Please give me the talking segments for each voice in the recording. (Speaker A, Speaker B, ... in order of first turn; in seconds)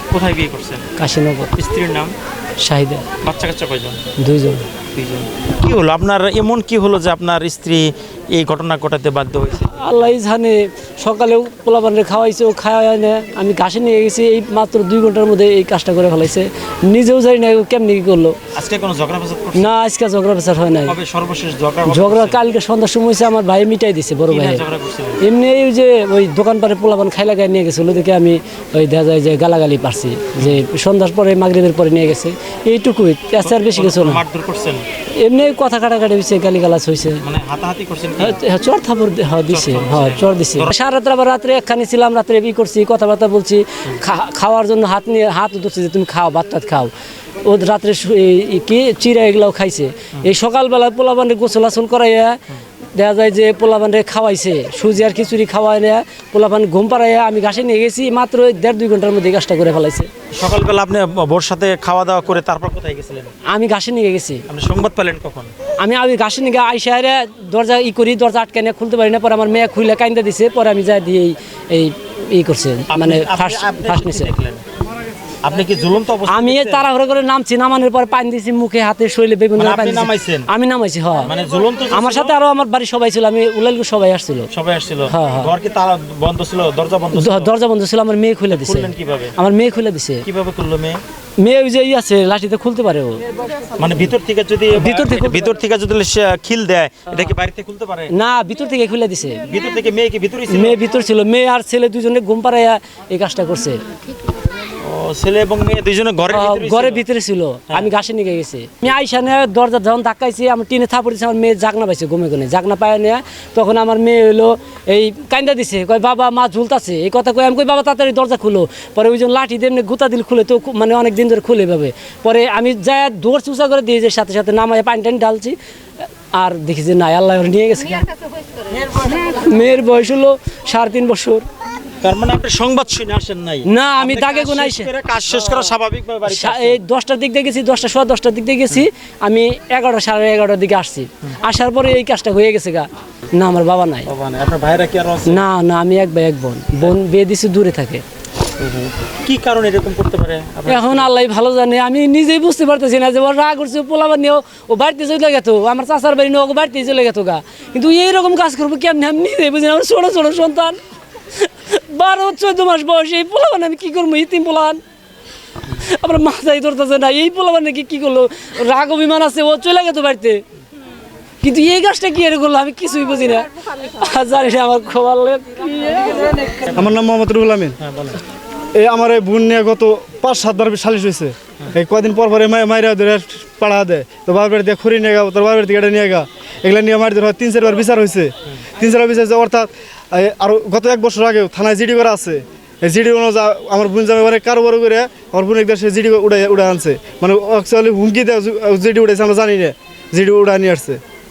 Speaker A: 0.1-0.9, 1.5-2.1, 3.2-4.1, 5.0-10.2, 18.6-19.7, 20.9-22.4, 24.3-25.2, 33.4-34.8, 37.2-38.4, 39.5-40.8, 60.3-63.3, 64.5-65.5, 72.9-74.6, 75.4-76.9, 79.6-80.5, 81.2-82.3, 84.5-87.5, 88.5-89.4, 90.2-91.0, 93.8-98.1, 99.4-100.8, 104.8-107.0, 132.0-136.8, 144.1-145.4, 148.6-151.1, 176.7-176.9, 177.8-178.2
Speaker B: 1.0-1.5, 2.6-3.1, 4.2-4.7, 9.7-18.4, 19.6-20.9, 21.9-24.6, 25.2-34.2, 35.2-37.2, 38.2-46.9, 47.4-52.4, 53.0-60.1, 63.5-64.4, 65.8-74.3, 76.3-81.3, 81.9-84.5, 85.1-85.5, 87.1-90.2, 91.4-93.2, 94.7-95.6, 98.1-99.4, 100.5-103.8, 106.3-125.6, 126.3-128.2, 128.8-131.4, 133.7-134.9, 136.3-144.1, 145.3-148.0, 150.7-160.8, 161.3-164.8, 165.7-170.4, 171.4-176.4
Speaker C: 176.8-177.8, 178.8-201.0